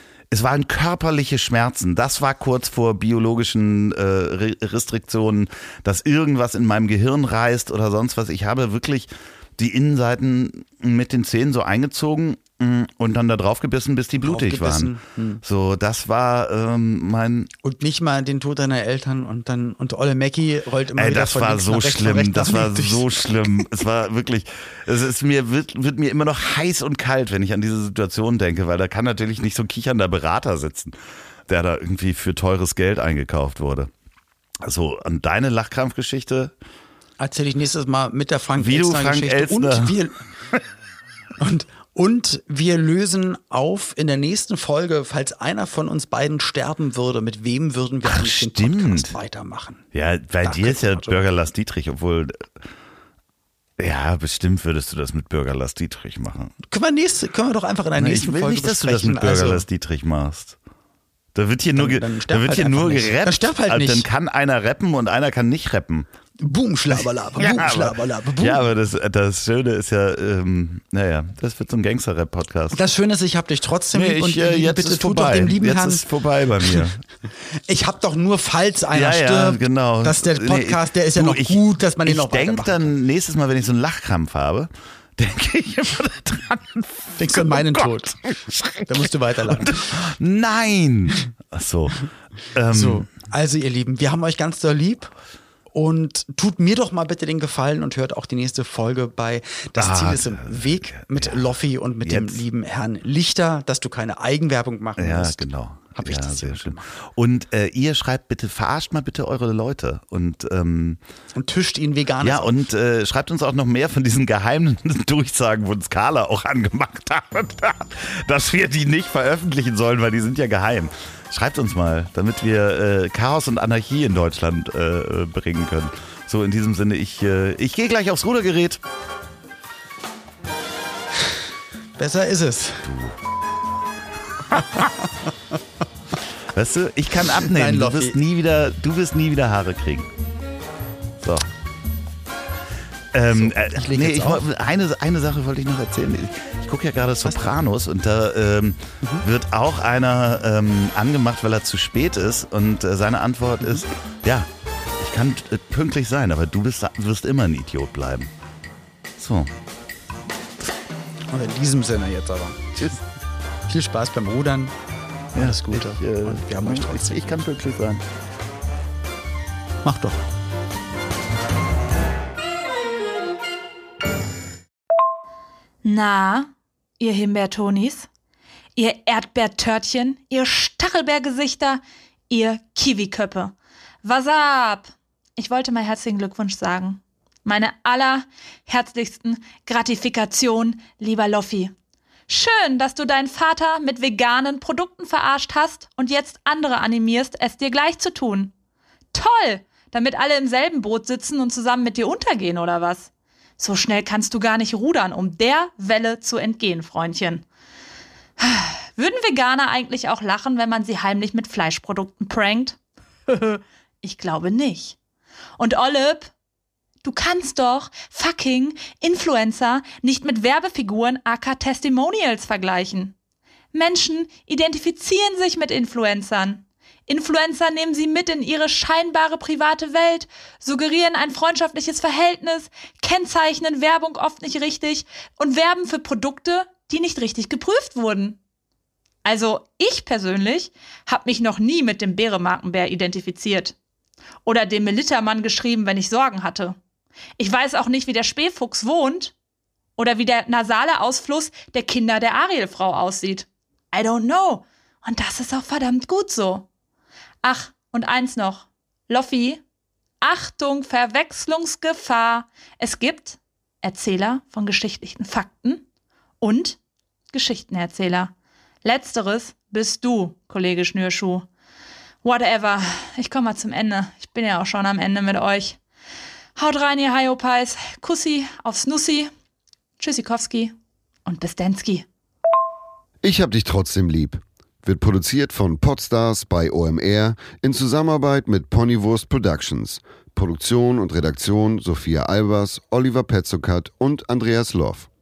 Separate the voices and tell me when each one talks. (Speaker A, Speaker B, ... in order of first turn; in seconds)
Speaker A: 0.3-17.5, 21.0-30.9, 31.5-33.9, 34.6-36.5, 38.6-39.9, 48.0-49.1, 49.9-52.6, 53.8-56.5, 58.0-60.6, 61.4-66.1, 67.4-72.8, 73.9-77.0, 78.9-93.1, 99.8-101.5, 102.0-102.4, 105.0-111.0, 112.2-128.8, 136.5-140.1, 141.2-141.5, 143.1-158.3, 159.2-159.5, 162.8-163.0, 165.3-168.1
Speaker B: 14.2-15.4, 17.6-23.2, 37.2-40.2, 41.4-49.9, 50.4-51.2, 56.7-59.6, 61.8-64.1, 66.4-68.6, 72.7-76.0, 77.4-82.9, 87.2-88.2, 88.8-90.1, 92.7-95.1, 95.7-106.9, 111.4-112.6, 132.0-133.0, 134.5-135.3, 137.4-138.2, 143.3-144.4, 147.2-147.5, 161.3-162.7, 163.7-164.7, 165.3-167.4, 169.8-170.2
Speaker C: 175.8-178.1, 178.8-191.7, 192.3-198.5, 199.1-207.4, 208.4-212.8, 213.3-215.0, 215.6-216.3, 217.0-223.2, 223.7-238.4, 239.2-243.8, 244.4-246.8, 247.4-249.3, 250.0-256.7, 257.4-259.6, 260.2-265.9, 266.4-266.8, 267.3-268.3, 268.8-271.5, 272.2-275.8, 276.6-279.3, 280.0-280.7, 281.3-282.1
Speaker D: 283.2-295.1